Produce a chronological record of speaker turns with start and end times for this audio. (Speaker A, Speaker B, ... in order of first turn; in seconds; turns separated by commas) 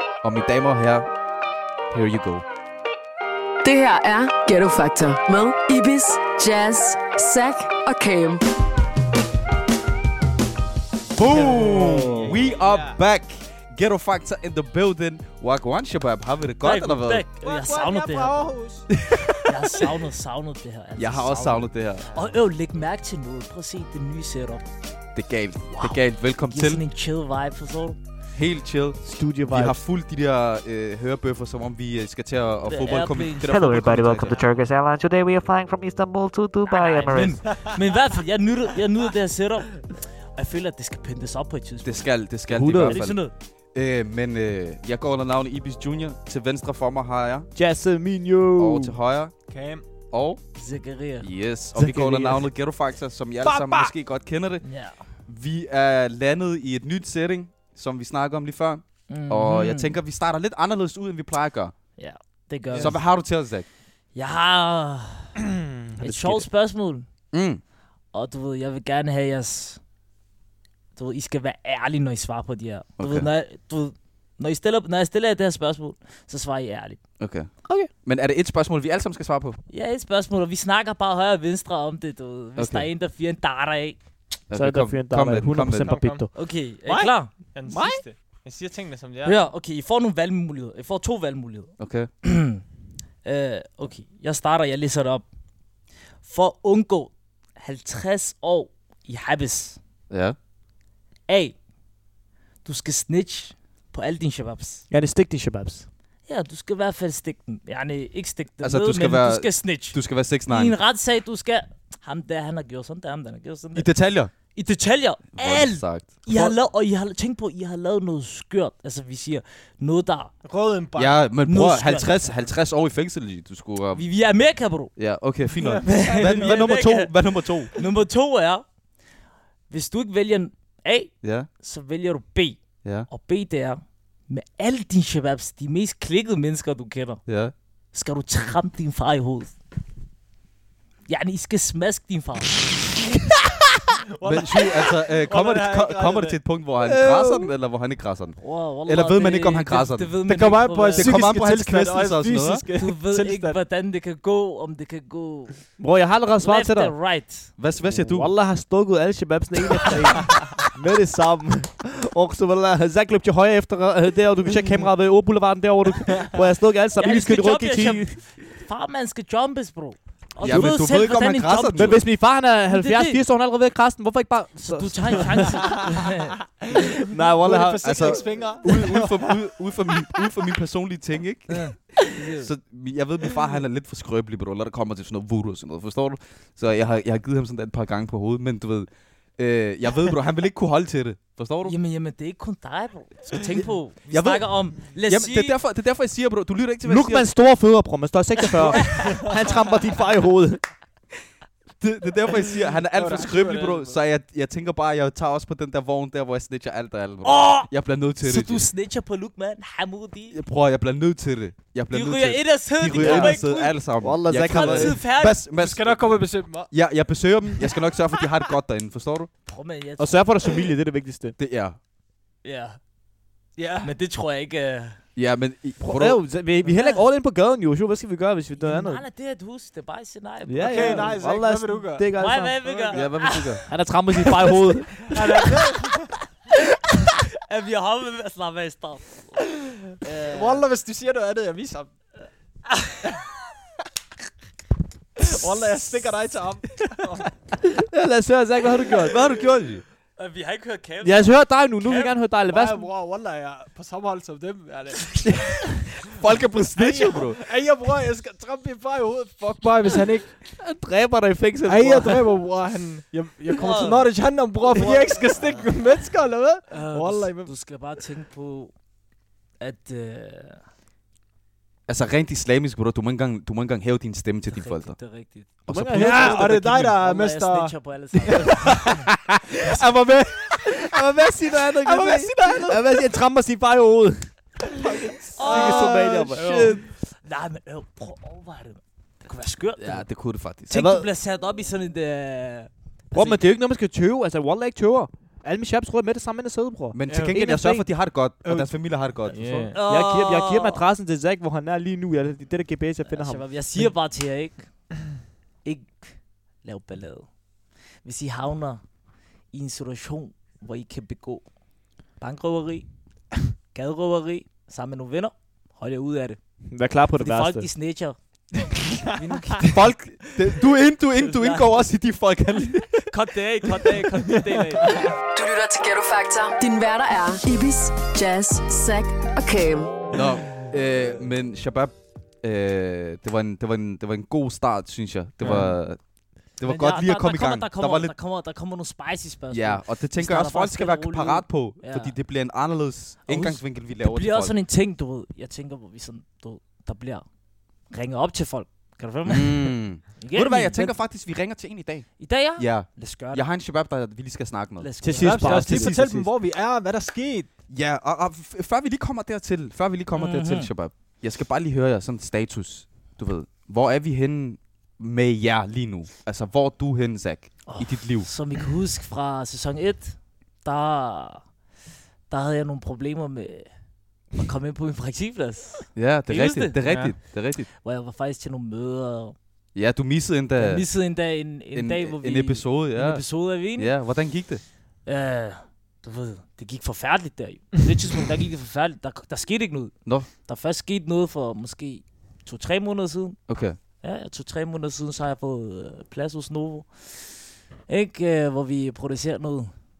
Speaker A: 0.2-1.1, Speaker A: 1.9-2.4, Speaker B: 3.6-8.4, Speaker A: 11.1-17.2, Speaker C: 11.3-13.0, Speaker D: 11.7-12.2, Speaker E: 16.6-18.6, Speaker C: 17.4-18.9, Speaker A: 18.9-19.6, Speaker E: 19.4-24.7, Speaker A: 21.0-22.1, Speaker C: 22.1-22.3, Speaker A: 25.1-26.8, Speaker E: 25.7-28.0, Speaker A: 28.4-34.5, Speaker D: 29.0-29.8, Speaker E: 32.7-34.6, Speaker F: 33.5-37.4, Speaker E: 36.7-42.2, Speaker A: 41.8-43.2, Speaker D: 42.5-43.1, Speaker E: 42.7-43.3, Speaker A: 43.7-47.5, Speaker D: 47.5-49.0, Speaker A: 48.6-49.3, Speaker C: 49.5-49.8, Speaker A: 50.1-50.4, Speaker E: 50.6-51.3, Speaker A: 51.2-54.6, Speaker D: 51.8-52.4, Speaker C: 53.4-53.9, Speaker E: 54.6-55.0, Speaker A: 55.3-61.7, Speaker E: 59.1-60.0, Speaker E: 62.0-63.0, Speaker C: 62.7-62.9, Speaker A: 62.8-63.7, Speaker E: 64.1-65.3, Speaker E: 66.0-67.0, Speaker A: 66.0-66.5, Speaker A: 67.3-67.6, Speaker E: 68.1-69.8, Speaker E: 71.0-77.0, Speaker A: 73.0-73.3, Speaker A: 77.2-79.6, Speaker E: 79.7-84.0, Speaker A: 82.6-82.9, Speaker A: 84.5-86.0, Speaker D: 84.5-86.3, Speaker C: 85.8-86.3, Speaker E: 86.3-87.3, Speaker C: 86.8-89.3, Speaker D: 87.7-88.0, Speaker E: 89.2-91.7, Speaker A: 91.8-92.1, Speaker E: 92.2-92.6, Speaker E: 93.2-95.2, Speaker E: 96.2-99.8, Speaker A: 100.1-100.4, Speaker E: 101.3-101.5, Speaker E: 102.6-104.8, Speaker D: 104.9-105.8, Speaker E: 106.3-113.9, Speaker A: 108.6-110.8, Speaker A: 113.7-114.3, Speaker E: 114.5-120.3, Speaker A: 115.3-116.5, Speaker C: 120.4-121.2, Speaker A: 121.0-124.0, Speaker E: 121.4-122.4, Speaker E: 123.9-124.9, Speaker A: 125.0-127.7, Speaker C: 125.6-126.8, Speaker E: 125.8-127.1, Speaker E: 127.7-128.7, Speaker E: 129.7-137.2, Speaker A: 131.2-131.5, Speaker A: 137.2-137.5, Speaker E: 137.9-139.5, Speaker E: 141.1-142.8, Speaker C: 144.2-146.4, Speaker A: 144.2-152.7, Speaker D: 146.9-147.5, Speaker E: 148.4-151.2, Speaker C: 150.2-153.6, Speaker E: 152.8-155.7, Speaker D: 155.8-156.9, Speaker E: 156.4-157.5, Speaker A: 157.6-158.3, Speaker D: 157.8-168.2, Speaker E: 166.9-172.1, Speaker A: 170.4-172.0, Speaker D: 170.4-170.8, Speaker D: 171.8-175.9, Speaker E: 172.7-173.2, Speaker E: 174.7-176.4, Speaker D: 176.7-178.3, Speaker C: 177.3-179.4, Speaker A: 177.8-191.8, Speaker E: 181.5-182.5, Speaker E: 191.7-195.6, Speaker A: 193.5-197.3, Speaker D: 196.8-200.6, Speaker A: 201.8-208.7, Speaker C: 202.9-204.0, Speaker E: 207.2-210.4, Speaker A: 210.3-216.1, Speaker E: 211.9-215.4, Speaker D: 212.9-213.4, Speaker D: 214.0-215.0, Speaker C: 215.6-216.7, Speaker A: 216.7-219.3, Speaker E: 219.5-220.5, Speaker D: 220.0-221.3, Speaker A: 221.4-221.8, Speaker E: 222.4-222.8, Speaker C: 223.6-223.9, Speaker E: 223.8-225.0, Speaker A: 225.2-226.2, Speaker D: 225.8-229.0, Speaker E: 226.6-227.0, Speaker E: 228.6-231.1, Speaker D: 230.4-232.6, Speaker C: 230.6-233.3, Speaker E: 232.2-233.7, Speaker A: 232.9-233.6, Speaker D: 233.7-235.1, Speaker C: 235.1-236.1, Speaker E: 237.1-239.4, Speaker E: 240.0-240.6, Speaker C: 240.3-241.9, Speaker C: 245.2-247.3, Speaker D: 247.6-249.2, Speaker A: 249.0-249.8, Speaker E: 250.2-252.2, Speaker D: 251.0-252.9, Speaker C: 252.5-255.5, Speaker A: 256.0-257.4, Speaker C: 256.8-260.3, Speaker D: 260.5-262.2, Speaker C: 261.6-267.5, Speaker E: 263.6-264.1, Speaker E: 264.8-265.6, Speaker E: 266.7-268.7, Speaker E: 269.6-270.6, Speaker A: 271.9-275.0, Speaker E: 274.5-279.1, Speaker A: 275.7-276.5, Speaker D: 275.7-276.9, Speaker C: 276.0-277.7, Speaker D: 278.5-286.8, Speaker A: 282.0-282.8, Speaker C: 282.1-282.5, Speaker E: 285.4-290.1, Speaker A: 285.4-286.8, Speaker A: 289.8-290.8, Speaker E: 290.7-293.4, Speaker D: 290.7-291.1, Speaker D: 293.1-297.9, Speaker A: 296.9-299.7, Speaker C: 297.1-297.4, Speaker C: 299.3-299.8, Speaker E: 299.7-300.9, Speaker D: 299.9-303.5, Speaker E: 303.1-304.8, Speaker E: 305.6-307.3, Speaker E: 308.0-308.8, Speaker E: 309.5-311.4, Speaker E: 312.2-312.9, Speaker E: 313.7-316.4, Speaker D: 316.7-317.7, Speaker E: 317.2-318.2, Speaker E: 318.9-319.8, Speaker A: 319.6-323.1, Speaker E: 321.2-321.7, Speaker E: 323.1-325.1, Speaker B: 325.4-330.1, Speaker A: 330.1-336.0, Speaker C: 335.4-335.7, Speaker A: 336.6-338.1, Speaker E: 336.6-342.2, Speaker A: 339.5-344.6, Speaker E: 343.3-347.3, Speaker E: 347.9-350.9, Speaker A: 349.3-354.9, Speaker E: 352.2-353.5, Speaker E: 354.8-355.9, Speaker D: 355.0-356.3, Speaker C: 355.2-357.5, Speaker A: 357.7-368.3, Speaker E: 360.2-360.7, Speaker E: 367.7-371.4, Speaker E: 372.3-373.7, Speaker E: 374.4-376.8, Speaker A: 375.9-377.7, Speaker C: 376.9-377.1, Speaker E: 377.8-379.4, Speaker A: 379.8-380.9, Speaker E: 380.6-383.9, Speaker A: 381.8-384.6, Speaker E: 385.1-393.4, Speaker A: 393.5-393.8, Speaker E: 394.0-399.7